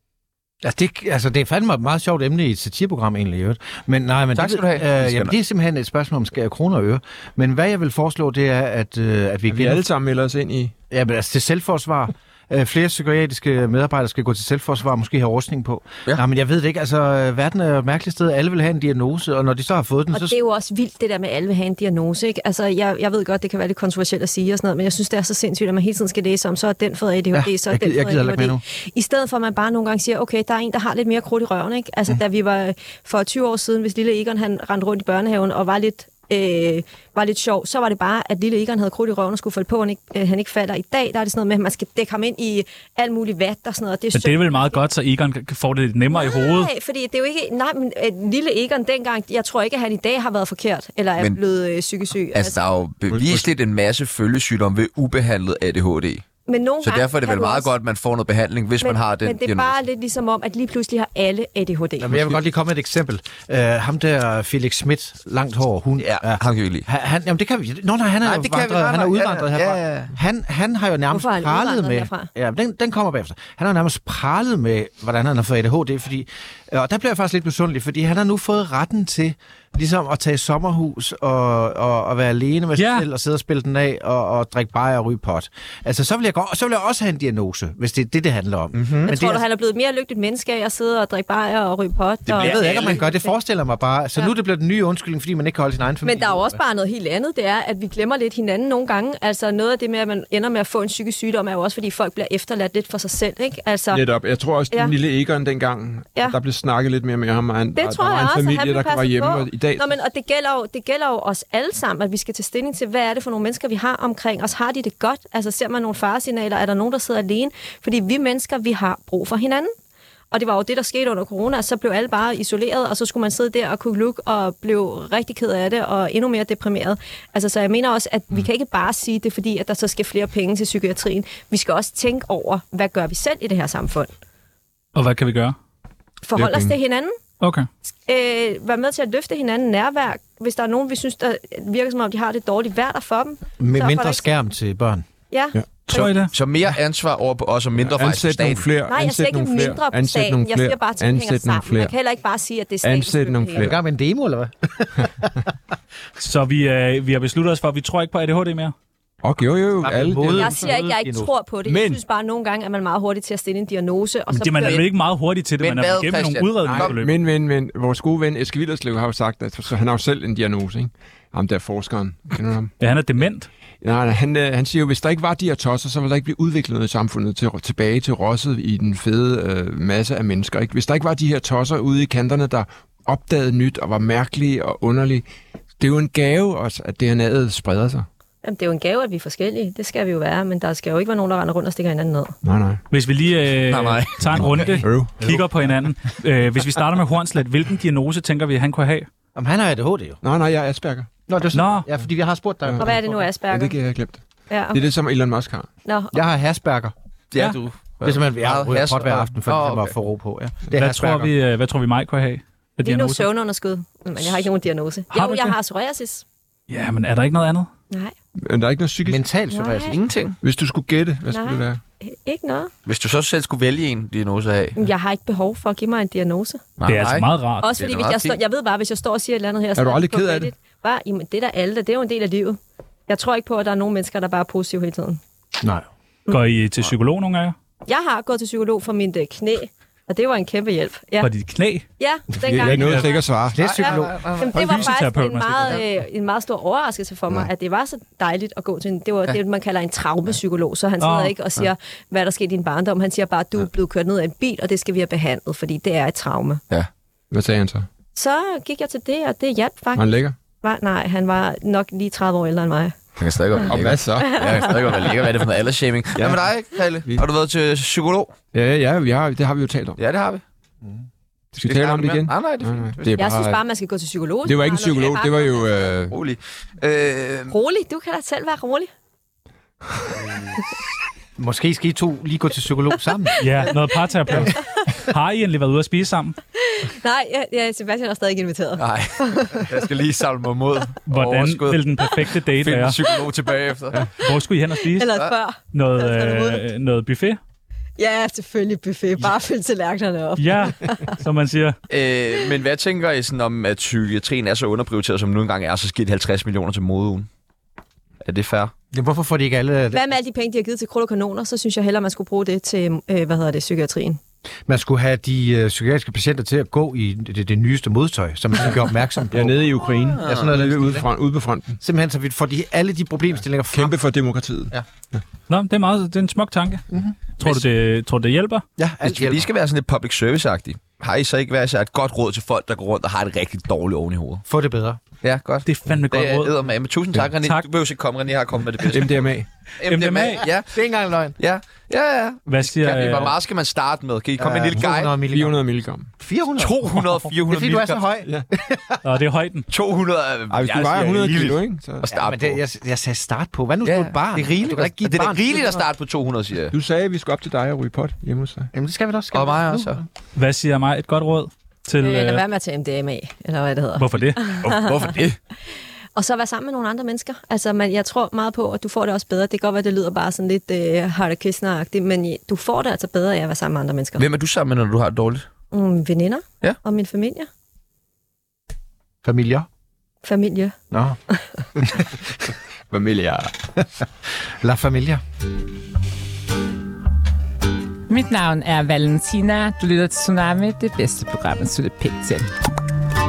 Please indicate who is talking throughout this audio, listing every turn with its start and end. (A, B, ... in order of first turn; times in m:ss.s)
0:00.6-0:09.8 A
0:04.3-0:05.3 B
0:09.5-0:10.7 C
0:10.9-0:20.4 A
0:20.1-0:44.8 D
0:27.3-0:28.6 A
0:44.1-0:46.7 E
0:46.1-0:52.6 D
0:52.3-0:56.2 B
0:53.1-0:53.5 C
0:56.5-0:57.7 D
0:56.8-0:59.8 B
0:58.8-1:02.1 D
1:02.0-1:29.4 A
1:06.0-1:06.9 B
1:08.2-1:10.1 B
1:11.1-1:12.3 D
1:22.8-1:23.1 E
1:28.7-1:29.1 B
1:29.1-1:33.3 D
1:32.3-1:33.1 B
1:32.4-1:36.6 A
1:36.0-1:44.0 D
1:43.9-1:49.9 C
1:47.8-1:59.7 D
2:00.3-2:14.1 D
2:15.0-2:15.6 E
2:16.2-2:17.2 D
2:16.4-2:16.8 C
2:17.4-2:17.7 E
2:18.1-2:24.3 D
2:23.6-2:25.0 A
2:25.3-2:26.1 D
2:25.9-2:26.3 E
2:25.9-2:28.7 B
2:27.8-2:31.9 C
2:28.9-2:33.7 D
2:32.8-2:33.8 C
2:33.6-2:35.4 A
2:36.2-2:38.7 E
2:39.2-2:40.8 C
2:39.8-2:41.3 A
2:40.4-2:44.8 D
2:41.7-2:42.0 C
2:44.3-2:47.1 E
2:45.6-2:47.0 B
2:46.6-2:52.7 C
2:52.8-2:53.5 E
2:53.8-3:05.3 C
3:05.8-3:08.1 C
3:08.4-3:12.4 D
3:12.4-3:12.8 C
3:12.9-3:19.1 E
3:13.7-3:14.8 B
3:14.4-3:15.4 C
3:19.4-3:20.2 A
3:20.2-3:21.1 C
3:21.3-3:23.1 A
3:21.5-3:21.9 E
3:22.6-3:25.7 C
3:22.8-3:23.8 D
3:24.5-3:24.8 D
3:25.9-3:26.2 D
3:26.1-3:26.9 A
3:27.3-3:29.9 B
3:28.0-3:31.3 A
3:30.8-3:33.3 E
3:32.8-3:36.2 D
3:35.1-3:35.6 E
3:36.7-3:37.7 E
3:38.4-3:39.2 C
3:39.0-3:40.0 A
3:39.5-3:40.0 D
3:39.9-3:40.4 B
3:40.4-3:41.8 C
3:41.3-3:42.7 D
3:42.9-3:44.8 B
3:44.8-3:46.6 D
3:46.8-3:48.4 B
3:46.9-3:47.7 E
3:47.6-3:55.2 D
3:49.8-3:50.5 C
3:56.3-3:57.6 E
3:57.9-4:01.3 D
4:01.2-4:01.9 E
4:02.0-4:16.6 D
4:02.4-4:03.7 C
4:02.7-4:03.0 E
4:03.5-4:04.3 A
4:03.6-4:05.0 B
4:04.6-4:05.8 E
4:11.0-4:11.3 E
4:17.3-4:17.9 C
4:18.2-4:23.0 D
4:20.0-4:20.4 C
4:23.2-4:28.3 B
4:23.7-4:25.0 C
4:24.2-4:24.8 D
4:26.2-4:26.5 C
4:28.5-4:30.0 C
4:30.0-4:30.4 B
4:31.5-4:33.6 C
4:31.6-4:33.2 B
4:33.2-4:35.6 D
4:34.4-4:36.2 C
4:36.1-4:37.6 B
4:37.5-4:38.9 D
4:40.3-4:40.6 B
4:41.4-4:43.7 A
4:43.4-4:46.4 E
4:44.3-4:44.9 D
4:46.6-4:49.8 D
4:48.8-4:54.1 B
4:51.1-4:53.0 E
4:54.2-4:55.1 E
4:54.2-4:56.6 D
4:55.7-4:57.4 E
4:58.0-5:01.1 D
5:00.4-5:01.8 E
5:01.9-5:07.3 B
5:08.2-5:08.7 B
5:08.9-5:10.0 A
5:09.9-5:14.2 D
5:14.7-5:21.1 A
5:19.3-5:21.8 C
5:20.1-5:20.5 B
5:21.8-5:24.0 A
5:23.7-5:25.2 C
5:25.5-5:26.8 E
5:26.9-5:27.2 A
5:27.4-5:28.6 E
5:28.8-5:29.5 A
5:29.0-5:34.4 B
5:34.5-5:35.0 A
5:35.2-5:39.3 B
5:35.6-5:36.5 E
5:38.9-5:39.5 C
5:39.8-5:40.8 B
5:39.8-5:40.5 E
5:40.7-5:41.4 A
5:41.4-5:45.2 B
5:42.5-5:43.4 E
5:44.4-5:45.6 A
5:44.8-5:46.1 C
5:46.2-5:49.0 A
5:46.6-5:48.0 B
5:49.0-5:49.7 E
5:49.7-5:52.6 B
5:50.5-5:52.1 C
5:52.1-5:55.9 A
5:53.8-5:56.7 B
5:56.7-5:58.7 C
5:58.7-6:00.0 A
5:59.3-6:00.0 B
6:00.4-6:02.4 E
6:02.0-6:05.0 D
6:04.0-6:04.4 E
6:04.5-6:05.4 B
6:05.7-6:14.2 D
6:14.2-6:15.5 B
6:15.7-6:17.5 D
6:19.2-6:19.7 A
6:20.2-6:20.8 D
6:20.9-6:21.2 A
6:21.8-6:22.1 A
6:22.9-6:23.6 C
6:24.6-6:25.2 A
6:28.1-6:32.5 F